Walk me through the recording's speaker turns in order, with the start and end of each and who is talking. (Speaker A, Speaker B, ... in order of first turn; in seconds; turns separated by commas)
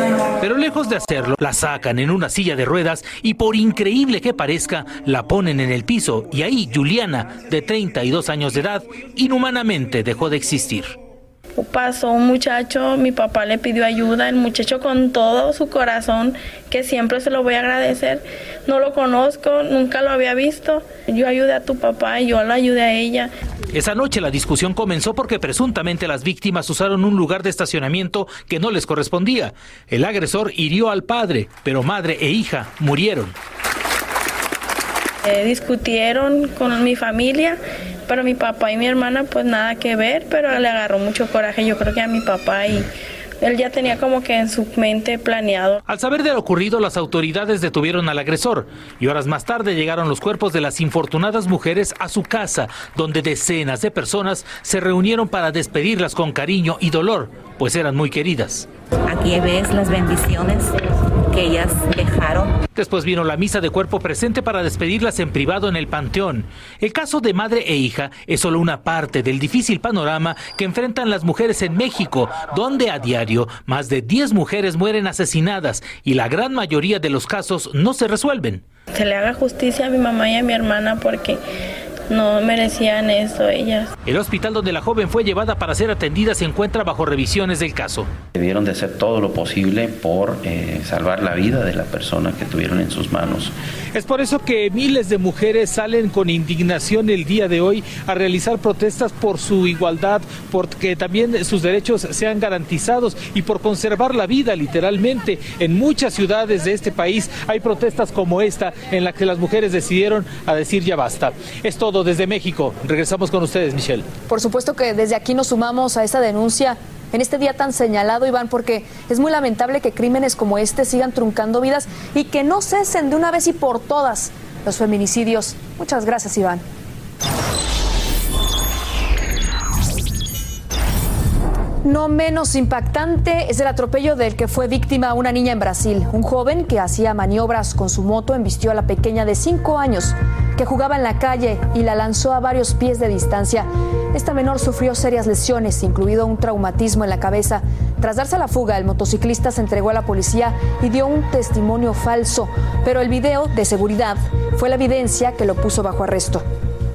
Speaker A: 0.4-10.9, Speaker B: 11.6-23.3, Speaker A: 23.7-33.3, Speaker B: 35.2-42.9, Speaker B: 43.4-45.8, Speaker A: 45.9-58.7, Speaker C: 59.1-60.8, Speaker C: 61.3-62.5, Speaker A: 62.7-78.6, Speaker B: 78.9-81.4, Speaker B: 82.1-83.9, Speaker A: 84.0-88.1, Speaker D: 88.4-93.5, Speaker A: 93.9-114.0, Speaker E: 114.3-126.6, Speaker E: 131.8-156.4